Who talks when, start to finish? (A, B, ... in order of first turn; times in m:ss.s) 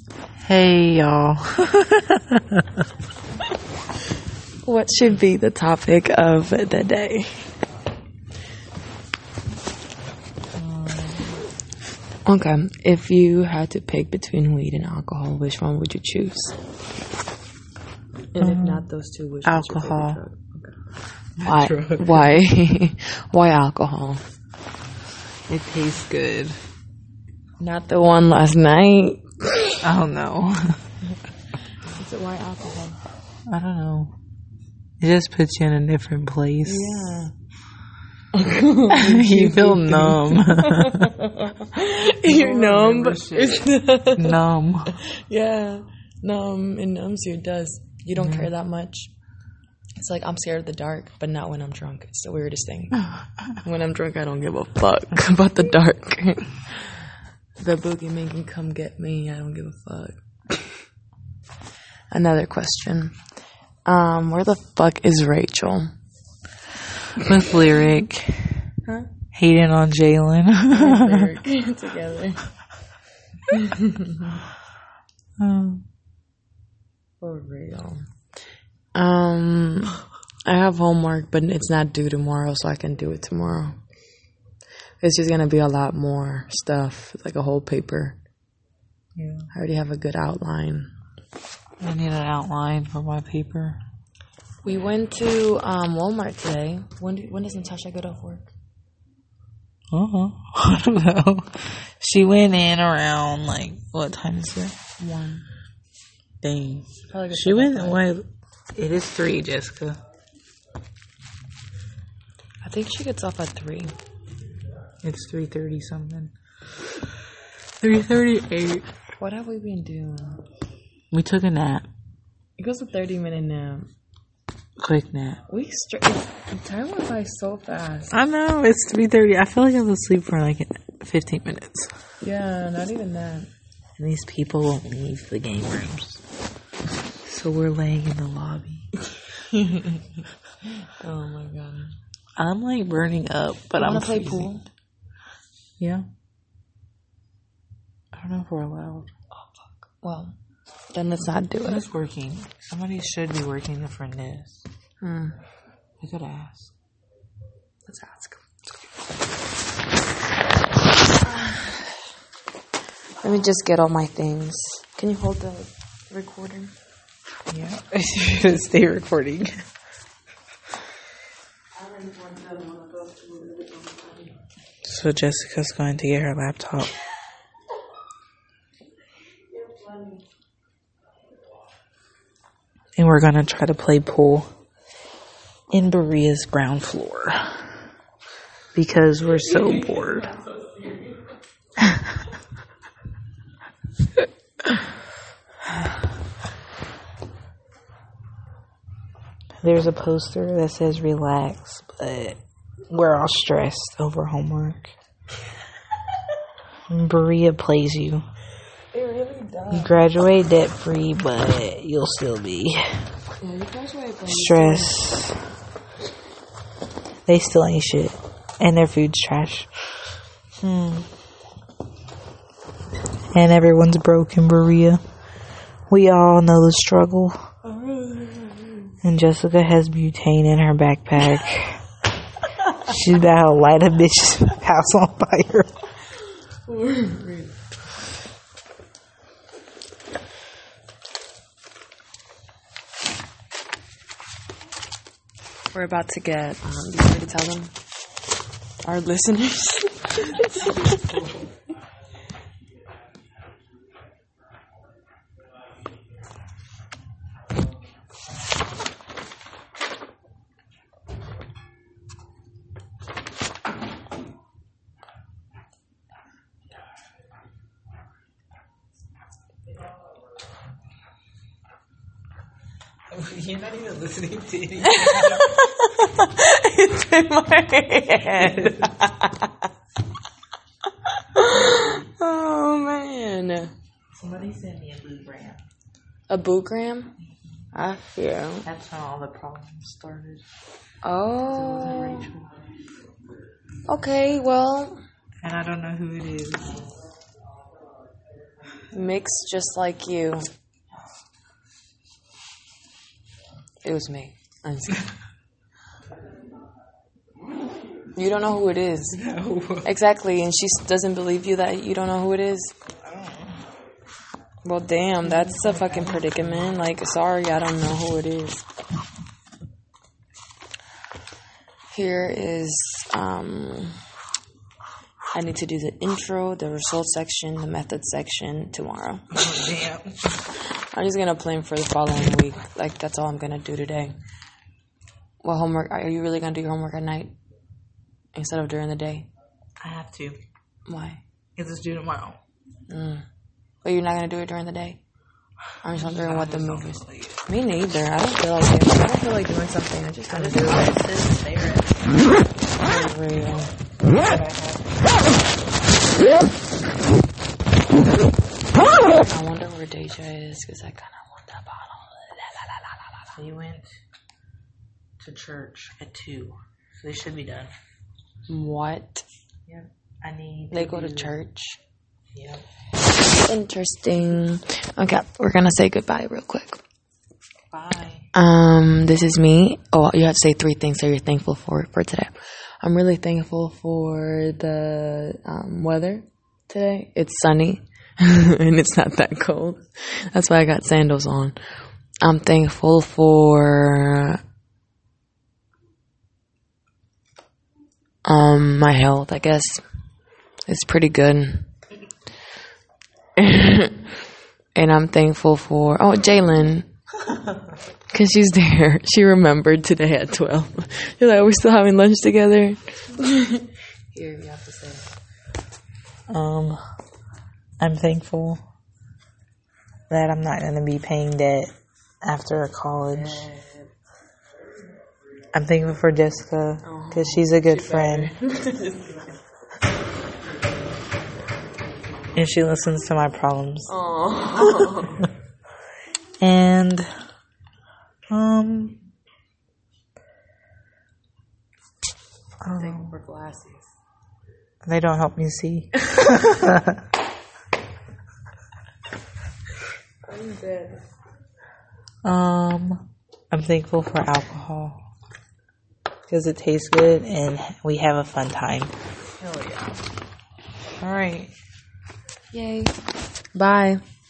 0:00.4-0:02.8 A
0:04.6-0:07.4 B
0:10.6-0:11.4 A
0:12.3-0:16.6 B
0:18.3-0:20.8 B
0:18.4-0:18.8 A
0:19.4-0:20.2 A
0:21.4-0:22.4 A
0:21.4-0:24.2 B
0:25.5-0:26.6 A
0:27.6-0:29.8 B
0:29.8-0:30.8 A
0:31.8-0:33.0 B
0:33.5-0:34.1 A
0:35.0-0:37.0 A
0:36.6-0:37.3 B
0:38.3-0:49.1 B
0:38.9-0:41.2 A
0:42.0-0:44.9 A
0:48.2-0:48.5 A
0:50.0-0:53.0 B
0:53.1-0:53.5 A
0:53.6-0:57.0 B
0:57.6-1:00.2 B
1:02.1-1:03.2 B
1:03.9-1:05.9 B
1:07.2-1:08.6 A
1:09.3-1:11.3 A
1:10.7-1:12.5 B
1:13.5-1:14.4 B
1:15.4-1:15.8 A
1:17.2-1:18.1 B
1:19.0-1:23.8 B
1:25.0-1:28.2 B
1:29.2-1:29.5 A
1:29.5-1:30.9 B
1:31.8-1:33.8 A
1:34.6-1:38.5 B
1:39.9-1:44.8 A
1:45.0-1:45.4 B
1:46.4-1:50.0 A
1:47.1-1:48.0 B
1:52.6-1:54.0 B
1:55.0-1:56.3 A
1:57.8-1:58.9 A
1:59.2-2:00.4 B
2:01.1-2:01.9 A
2:02.6-2:03.9 B
2:04.8-2:05.4 A
2:05.5-2:08.1 B
2:08.1-2:11.9 A
2:12.2-2:13.5 B
2:14.0-2:16.2 A
2:17.2-2:18.9 A
2:19.3-2:20.2 B
2:21.0-2:21.9 B
2:22.4-2:24.5 A
2:23.8-2:24.7 B
2:25.8-2:26.1 A
2:28.1-2:29.1 A
2:29.3-2:30.4 B
2:30.9-2:31.8 B
2:31.6-2:34.7 A
2:35.0-2:35.4 B
2:36.0-2:36.7 A
2:37.9-2:38.4 B
2:41.2-2:41.7 B
2:43.2-2:46.7 B
2:47.5-2:49.6 A
2:51.8-2:54.4 B
2:54.8-2:56.9 A
2:59.5-3:00.2 B
3:03.0-3:04.5 A
3:05.7-3:07.6 A
3:08.8-3:10.3 A
3:09.7-3:11.0 B
3:19.6-3:22.4 A
3:22.9-3:24.9 A
3:26.9-3:28.2 A
3:28.9-3:30.0 B
3:29.7-3:33.0 A
3:33.4-3:35.1 B
3:34.3-3:35.4 A
3:37.3-3:39.7 A
3:40.6-3:41.1 A
3:43.3-3:45.0 A
3:45.9-3:47.4 A
3:47.7-3:48.8 B
3:49.0-3:51.8 A
3:52.7-3:55.7 A
3:56.7-3:57.6 B
4:05.7-4:07.7 B
4:08.8-4:11.1 B
4:33.1-4:35.6 A
4:34.8-4:39.7 B
4:38.4-4:38.9 A
4:41.0-4:43.7 B
4:41.5-4:42.0 A
4:44.1-4:45.6 A
4:46.3-4:47.1 B
4:47.7-4:48.7 B
4:48.6-4:50.4 A
4:51.0-4:52.3 B
4:51.4-4:52.6 A
4:53.9-4:55.0 B
4:55.4-4:56.9 A
4:58.9-5:00.5 B
5:03.8-5:05.0 B
5:08.2-5:09.2 B
5:09.1-5:09.9 A
5:09.8-5:12.7 B
5:13.0-5:13.6 A
5:14.6-5:18.6 B
5:15.2-5:16.8 A
5:21.9-5:24.0 B
5:25.3-5:29.3 B
5:29.3-5:30.4 A
5:30.9-5:34.1 B
5:35.4-5:37.3 B
5:38.4-5:39.3 B
5:39.8-5:40.4 A
5:40.9-5:41.2 B
5:41.6-5:42.4 A
5:42.9-5:43.2 B
5:43.8-5:45.0 B
5:45.8-5:51.0 B
5:45.9-5:47.4 A
5:50.3-5:52.1 A
5:52.8-5:53.7 B
5:54.2-5:55.1 A
5:59.1-6:03.2 B
6:03.4-6:03.9 A
6:05.2-6:07.7 A
6:08.5-6:09.2 B
6:09.7-6:11.3 A
6:10.7-6:11.8 B
6:12.3-6:12.6 A
6:13.4-6:16.8 B
6:17.7-6:18.3 A
6:18.3-6:31.6 B
6:32.2-6:34.4 B
6:38.2-6:39.8 B
6:40.7-6:41.7 B
6:43.4-6:44.1 B
6:44.8-6:46.9 B
6:48.1-6:55.1 B
6:56.3-6:56.8 A
6:57.8-6:58.6 A
7:00.1-7:03.5 A
7:03.1-7:03.9 B
7:05.5-7:08.3 A
7:06.8-7:09.2 B
7:12.4-7:13.9 A
7:13.9-7:15.3 B
7:14.6-7:15.0 A
7:16.4-7:17.1 A
7:18.3-7:19.0 A
7:22.6-7:23.2 A
7:22.7-7:23.9 B
7:24.8-7:27.0 A
7:26.0-7:26.5 B
7:30.3-7:31.0 B
7:32.2-7:35.0 A
7:36.3-7:40.0 A
7:41.0-7:41.5 A
7:42.5-7:43.0 B
7:43.6-7:44.0 B